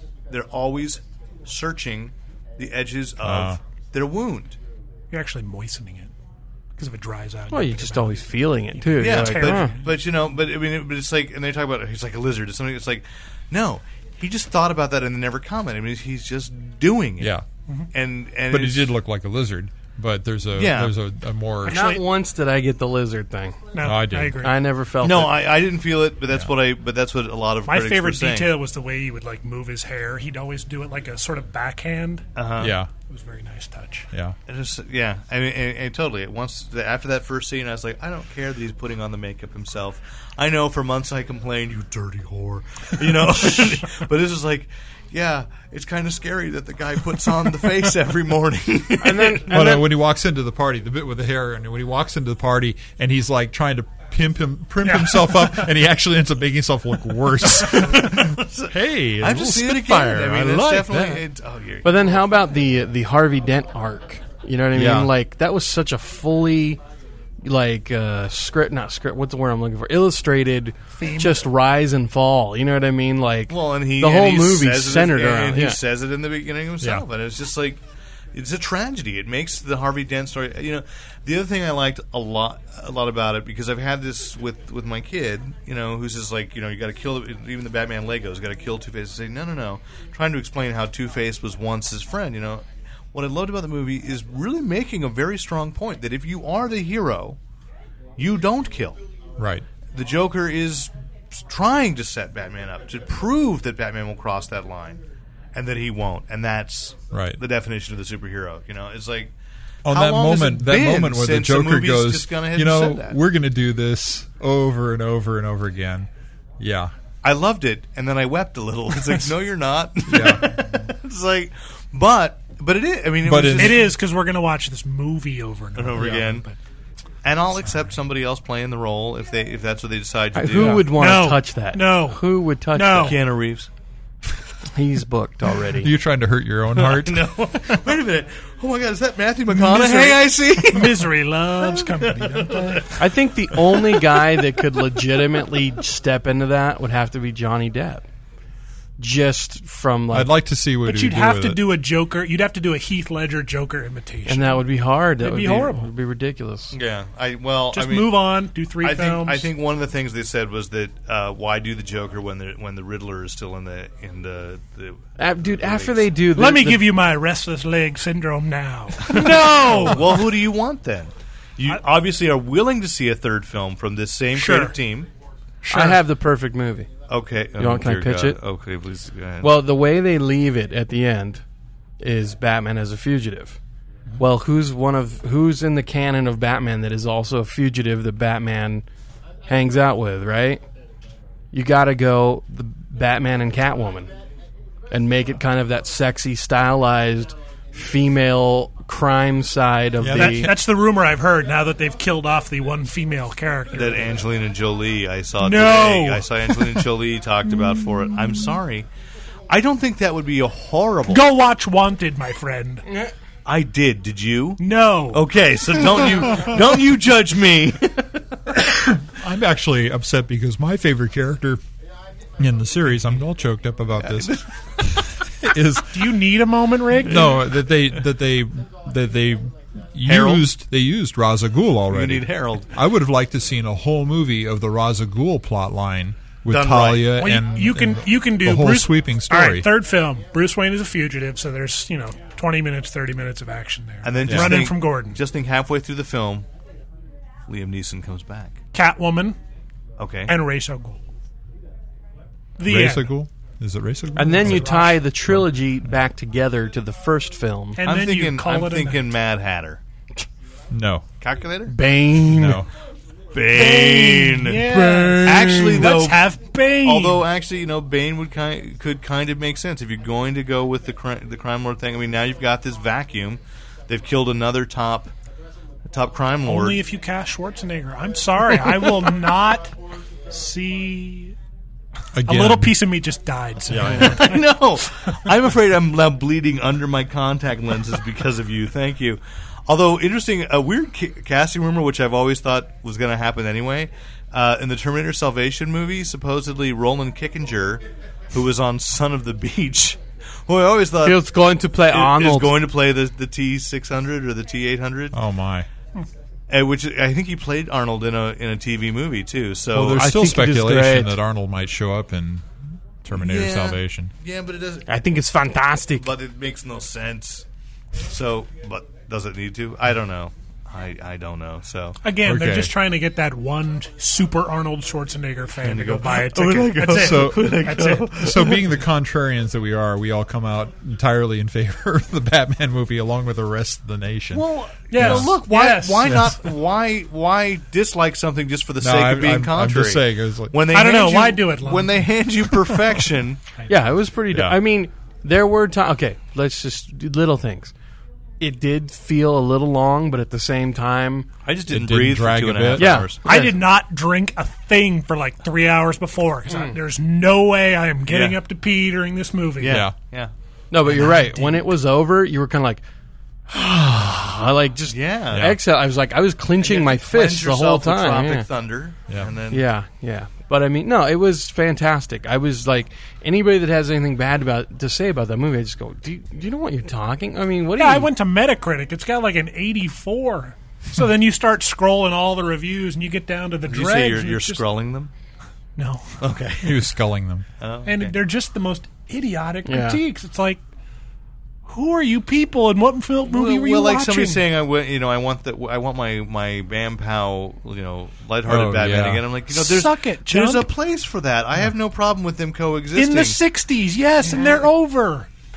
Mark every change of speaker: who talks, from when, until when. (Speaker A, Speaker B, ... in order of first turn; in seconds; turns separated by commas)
Speaker A: 0.3-4.6, Speaker B: 3.2-3.6, Speaker C: 5.1-6.1, Speaker C: 6.8-10.0, Speaker D: 7.5-9.7, Speaker A: 9.0-17.4, Speaker B: 17.2-17.5, Speaker A: 17.9-18.9, Speaker B: 18.5-21.8, Speaker A: 20.6-20.9, Speaker C: 21.7-22.0, Speaker D: 21.7-23.7, Speaker C: 23.7-24.6, Speaker B: 23.8-24.4, Speaker D: 24.4-25.3, Speaker A: 25.0-28.6, Speaker C: 27.7-32.3, Speaker A: 32.4-32.8, Speaker B: 32.6-32.9, Speaker C: 33.0-34.1, Speaker A: 34.5-49.5, Speaker D: 49.0-49.9, Speaker B: 49.5-61.2, Speaker C: 54.8-55.5, Speaker A: 57.5-62.2, Speaker D: 61.8-66.8, Speaker B: 64.7-65.1, Speaker D: 67.4-75.8, Speaker C: 71.0-71.4, Speaker A: 73.5-77.8, Speaker B: 76.8-77.0, Speaker A: 78.3-97.4, Speaker A: 98.2-99.0, Speaker B: 99.4-99.7, Speaker A: 99.9-105.0, Speaker A: 105.5-109.3, Speaker B: 107.1-107.4, Speaker B: 109.8-116.9, Speaker A: 109.9-113.2, Speaker A: 117.2-123.9, Speaker B: 120.1-120.8, Speaker B: 123.2-123.9, Speaker C: 123.5-126.6, Speaker A: 125.8-126.5, Speaker A: 127.2-130.9, Speaker D: 130.3-133.2, Speaker C: 130.6-133.2, Speaker A: 132.9-133.7, Speaker D: 134.7-135.9, Speaker B: 135.8-137.3, Speaker A: 136.8-143.0, Speaker C: 139.5-143.0, Speaker D: 143.0-148.1, Speaker A: 143.6-143.9, Speaker D: 149.0-150.3, Speaker B: 150.1-151.6, Speaker C: 150.8-154.7, Speaker D: 154.3-156.8, Speaker C: 155.2-155.9, Speaker A: 156.7-158.2, Speaker C: 157.7-159.5, Speaker A: 158.8-166.1, Speaker D: 165.2-166.9, Speaker C: 166.3-170.2, Speaker A: 169.0-175.1, Speaker C: 174.3-174.8, Speaker C: 175.6-176.0, Speaker D: 175.7-176.9, Speaker A: 177.1-179.7, Speaker D: 177.6-178.4, Speaker D: 179.4-181.4, Speaker D: 182.0-183.6, Speaker D: 184.2-188.8, Speaker D: 189.5-190.6, Speaker D: 191.5-194.1, Speaker D: 194.9-200.5, Speaker B: 200.0-200.6, Speaker C: 200.2-204.1, Speaker A: 203.7-208.9, Speaker C: 205.4-206.8, Speaker A: 209.5-211.3, Speaker C: 211.1-212.9, Speaker A: 213.5-218.4, Speaker C: 214.6-215.2, Speaker B: 218.8-221.6, Speaker B: 222.4-226.1, Speaker A: 224.0-225.0, Speaker C: 225.9-227.3, Speaker B: 227.1-239.7, Speaker A: 230.1-230.5, Speaker A: 231.9-232.7, Speaker A: 236.5-237.2, Speaker C: 237.1-245.2, Speaker A: 244.0-246.5, Speaker B: 244.3-244.7, Speaker A: 247.5-248.6, Speaker C: 248.7-249.4, Speaker A: 250.0-250.4, Speaker C: 250.3-251.0, Speaker C: 252.6-253.1, Speaker B: 252.6-254.7, Speaker D: 254.2-257.8, Speaker C: 254.4-255.0, Speaker C: 257.8-259.0, Speaker A: 257.8-259.8, Speaker B: 260.7-261.1, Speaker A: 261.2-261.8, Speaker D: 261.7-262.6, Speaker B: 262.3-262.7, Speaker A: 263.3-275.1, Speaker C: 263.5-267.2, Speaker D: 264.4-265.8, Speaker A: 275.9-276.8, Speaker C: 276.5-279.8, Speaker C: 280.3-281.4, Speaker B: 282.1-282.8, Speaker C: 282.2-284.4, Speaker B: 283.7-284.2, Speaker A: 283.9-301.3, Speaker D: 301.0-302.6, Speaker A: 301.9-305.2, Speaker B: 305.1-305.7, Speaker A: 306.5-310.1, Speaker B: 309.7-312.5, Speaker D: 310.0-311.1, Speaker B: 313.0-314.1, Speaker A: 313.1-314.9, Speaker D: 314.9-316.1, Speaker A: 316.0-317.4, Speaker A: 318.1-322.0, Speaker C: 322.0-328.2, Speaker B: 322.2-322.7, Speaker A: 325.6-328.7, Speaker B: 326.9-334.4, Speaker A: 334.3-343.4, Speaker C: 334.9-336.2, Speaker B: 335.0-335.4, Speaker B: 336.1-336.4, Speaker B: 338.8-340.6, Speaker C: 340.7-342.0, Speaker D: 343.7-347.7, Speaker B: 344.3-344.6, Speaker D: 348.4-351.3, Speaker A: 351.4-353.3, Speaker B: 351.7-353.1, Speaker D: 352.8-353.5, Speaker C: 353.2-359.9, Speaker A: 358.1-358.4, Speaker A: 359.6-360.3, Speaker B: 359.7-359.9, Speaker D: 360.7-362.8, Speaker B: 361.0-361.6, Speaker D: 363.5-368.5, Speaker A: 364.9-365.6, Speaker B: 365.3-365.6, Speaker A: 366.6-369.6, Speaker B: 369.1-369.3, Speaker D: 369.5-378.1, Speaker C: 377.8-384.6, Speaker A: 383.7-385.1, Speaker C: 385.8-386.2, Speaker A: 386.2-386.9, Speaker B: 386.6-387.5, Speaker A: 387.6-388.2, Speaker C: 387.9-390.6, Speaker D: 389.7-390.0, Speaker C: 391.7-394.4, Speaker A: 393.3-403.4, Speaker B: 398.4-399.2, Speaker C: 399.5-400.7, Speaker C: 402.9-405.3